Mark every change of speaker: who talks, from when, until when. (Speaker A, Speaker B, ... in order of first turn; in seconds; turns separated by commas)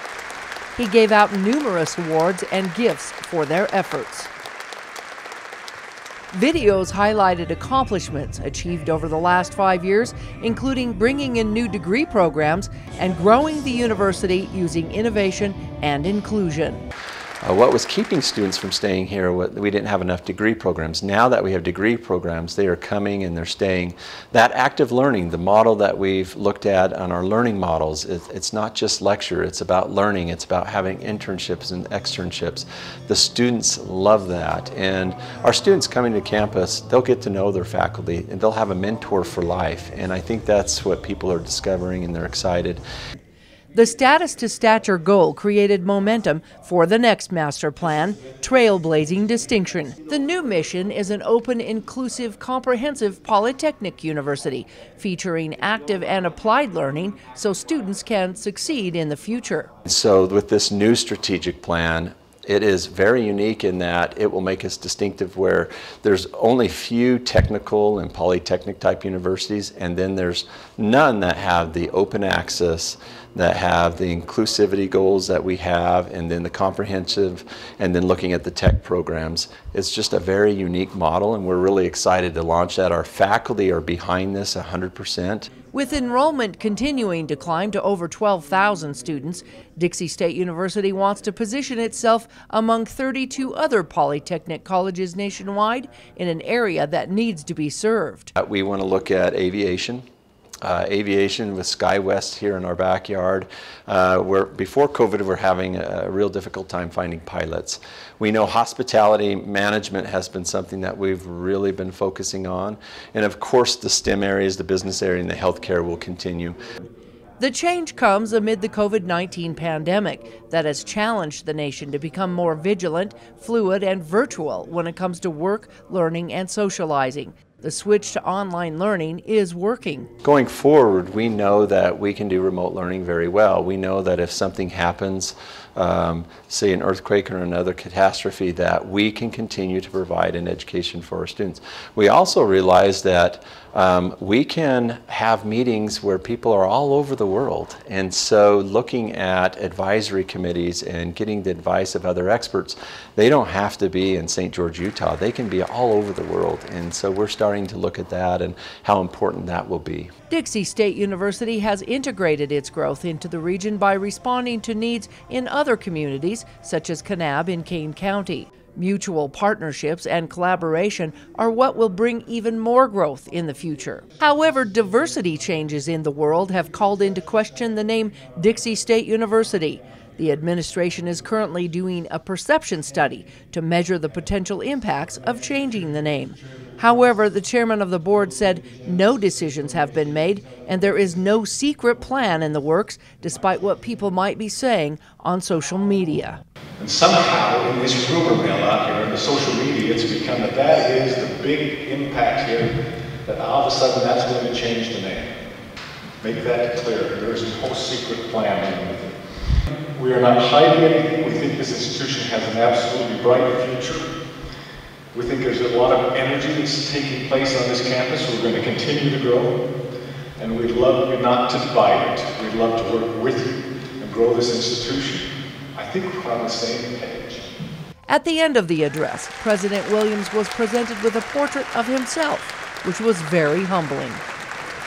Speaker A: 0.8-4.3, Speaker A: 6.3-16.8, Speaker B: 17.4-42.8, Speaker A: 43.7-59.7, Speaker B: 59.8-85.5, Speaker A: 85.7-98.3, Speaker B: 98.4-100.0, Speaker B: 100.6-116.6, Speaker A: 117.4-130.1, Speaker B: 130.2-160.1, Speaker A: 160.3-196.4, Speaker C: 196.8-202.7, Speaker C: 203.2-205.4, Speaker C: 206.2-209.2, Speaker C: 209.9-214.1, Speaker C: 215.1-219.5, Speaker C: 220.4-227.5, Speaker A: 228.1-234.2